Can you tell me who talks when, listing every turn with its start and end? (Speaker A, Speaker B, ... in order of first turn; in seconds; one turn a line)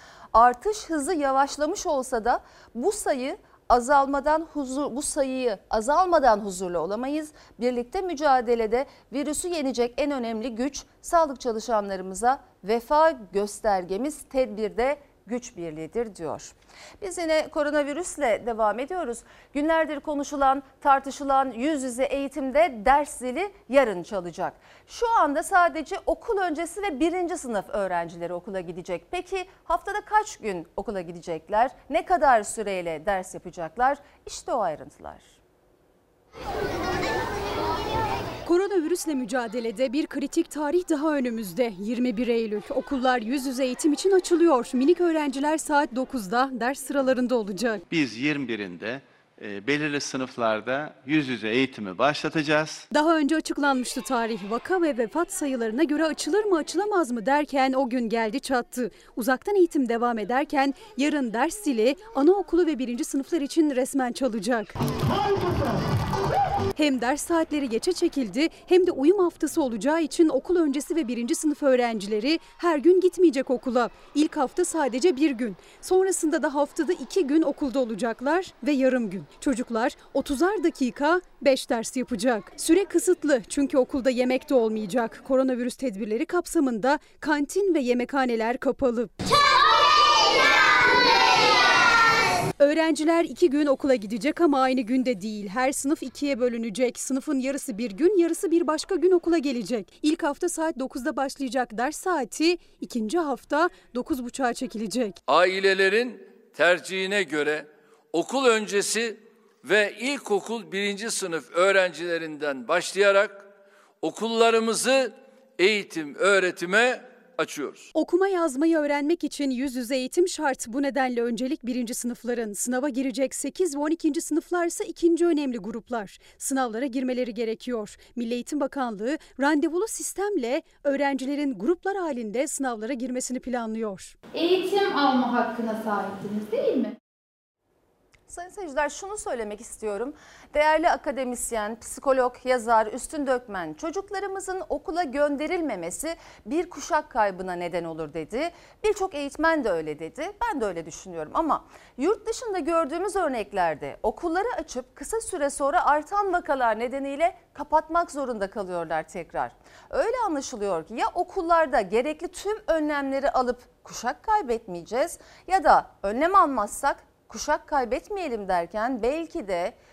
Speaker A: 0.3-35.4
Speaker B: 38.5-47.8
Speaker C: 47.9-52.9
Speaker B: 52.9-64.7
Speaker B: 66.8-89.1
Speaker B: 92.6-105.2
Speaker D: 105.3-113.5
Speaker D: 114.0-117.9
Speaker B: 118.0-134.2
Speaker E: 134.3-136.9
Speaker A: 138.3-169.8